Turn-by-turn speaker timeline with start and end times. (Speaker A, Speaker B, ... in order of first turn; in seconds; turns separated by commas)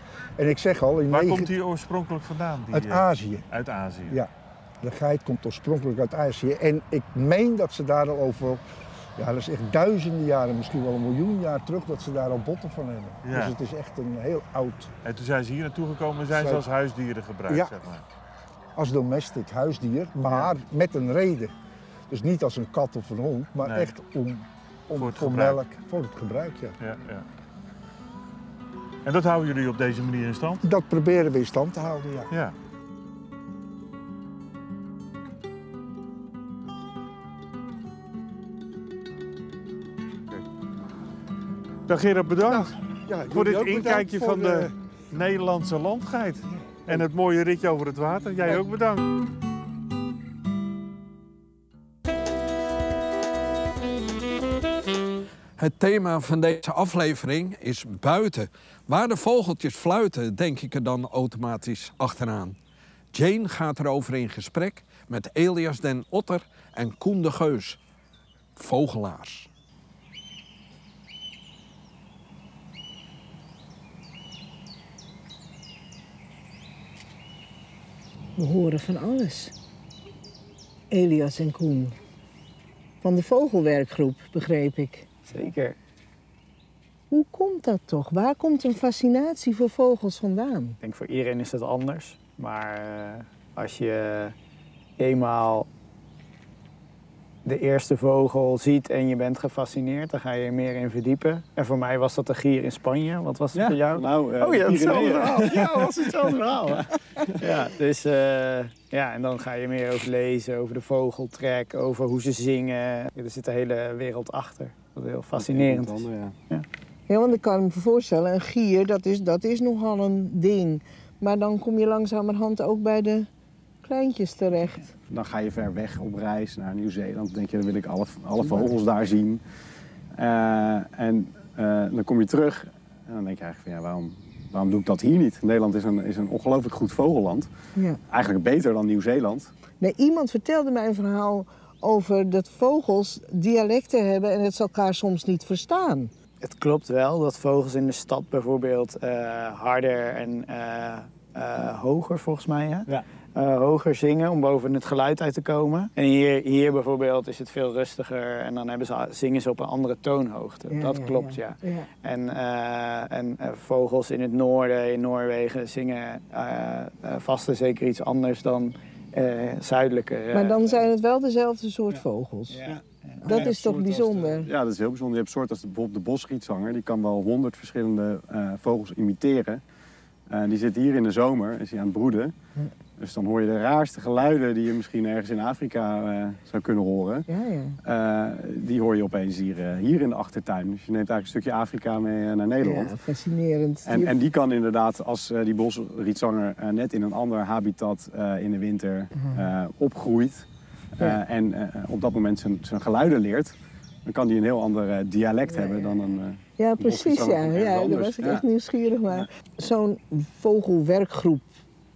Speaker A: 0.4-1.5, Speaker B: 1.1-4.2, Speaker A: 2.7-3.5, Speaker A: 4.8-8.6, Speaker A: 9.2-14.9, Speaker B: 13.2-13.5, Speaker B: 15.1-18.0, Speaker A: 16.3-16.6, Speaker A: 17.5-17.7, Speaker A: 18.8-21.5, Speaker A: 22.1-26.8, Speaker B: 23.7-23.9, Speaker B: 25.0-25.6, Speaker B: 26.8-27.2, Speaker B: 29.1-30.6, Speaker A: 30.6-32.3, Speaker B: 41.9-42.8, Speaker A: 42.5-44.7, Speaker B: 43.3-49.1, Speaker C: 55.6-62.6, Speaker C: 63.1-67.8, Speaker C: 68.6-69.5, Speaker D: 78.4-79.5, Speaker D: 80.9-82.0, Speaker D: 83.0-85.1, Speaker E: 85.3-85.8, Speaker D: 87.1-90.8, Speaker E: 90.8-94.3, Speaker E: 95.0-95.7, Speaker E: 97.5-106.8, Speaker F: 103.5-106.5, Speaker E: 107.4-116.0, Speaker F: 115.3-116.4, Speaker D: 117.1-123.3, Speaker D: 123.8-124.9, Speaker F: 125.1-129.4, Speaker F: 130.2-137.5, Speaker F: 138.1-139.5, Speaker D: 139.8-146.1, Speaker E: 146.4-170.8, Speaker D: 160.7-161.9, Speaker D: 170.3-172.6, Speaker F: 172.7-179.6, Speaker D: 173.2-174.5, Speaker E: 173.2-173.5, Speaker F: 180.3-182.3, Speaker F: 183.0-187.3, Speaker D: 187.3-187.8, Speaker F: 187.8-192.9, Speaker D: 192.6-194.1, Speaker F: 193.8-200.5, Speaker D: 199.1-199.5, Speaker F: 201.0-203.5, Speaker F: 204.1-208.4, Speaker D: 205.5-205.9, Speaker D: 206.6-211.5